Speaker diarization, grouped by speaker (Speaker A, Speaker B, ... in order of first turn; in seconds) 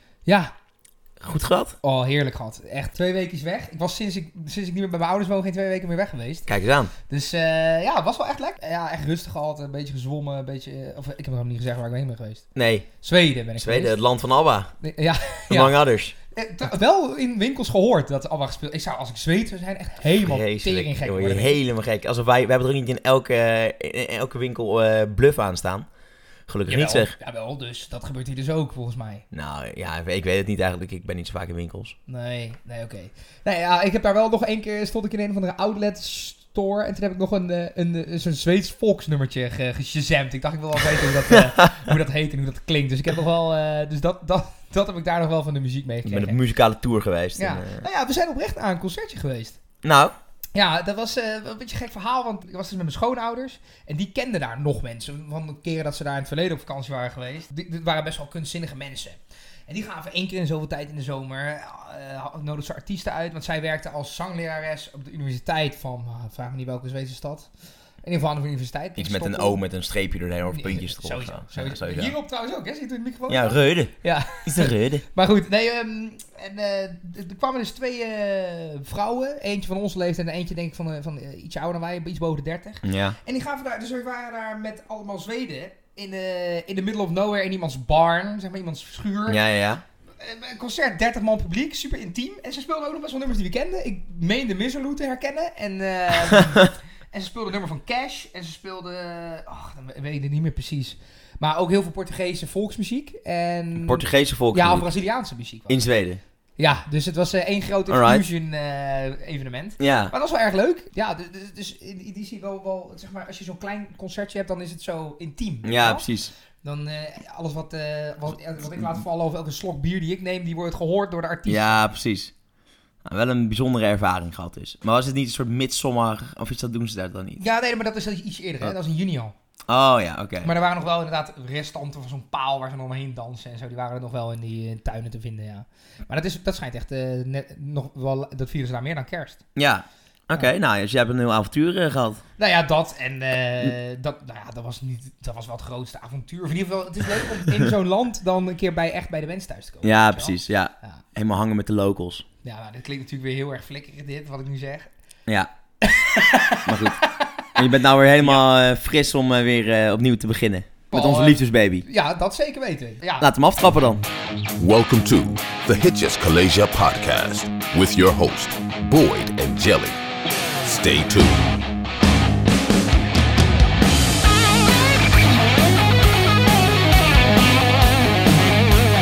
Speaker A: 0.2-0.5, 1.8-6.5, 7.1-14.0, 14.8-15.8, 16.3-21.6, 26.7-29.2, 32.1-46.4, 47.4-49.6, 50.5-67.5, 68.0-69.6, 70.5-89.4, 90.2-105.8, 106.6-116.1, 116.6-121.8, 127.4-129.3, 130.4-139.4, 142.4-151.0, 152.4-154.9, 155.8-158.4, 160.9-163.3
Speaker B: 1.2-1.8, 6.5-6.9, 12.5-12.9, 13.6-14.7, 15.5-16.1, 20.2-25.9, 26.5-27.1, 29.3-31.9, 41.3-41.8, 46.0-47.8, 49.8-50.1, 69.0-72.1, 73.3-75.0, 82.8-83.2, 89.3-89.8, 103.8-104.9, 105.7-106.2, 107.9-108.2, 109.8-110.1, 115.6-116.3, 121.5-122.3, 123.0-127.4, 129.7-130.5, 139.6-142.2, 149.8-152.2, 156.6-161.8, 163.2-164.0
Speaker C: 164.6-170.0, 170.6-171.5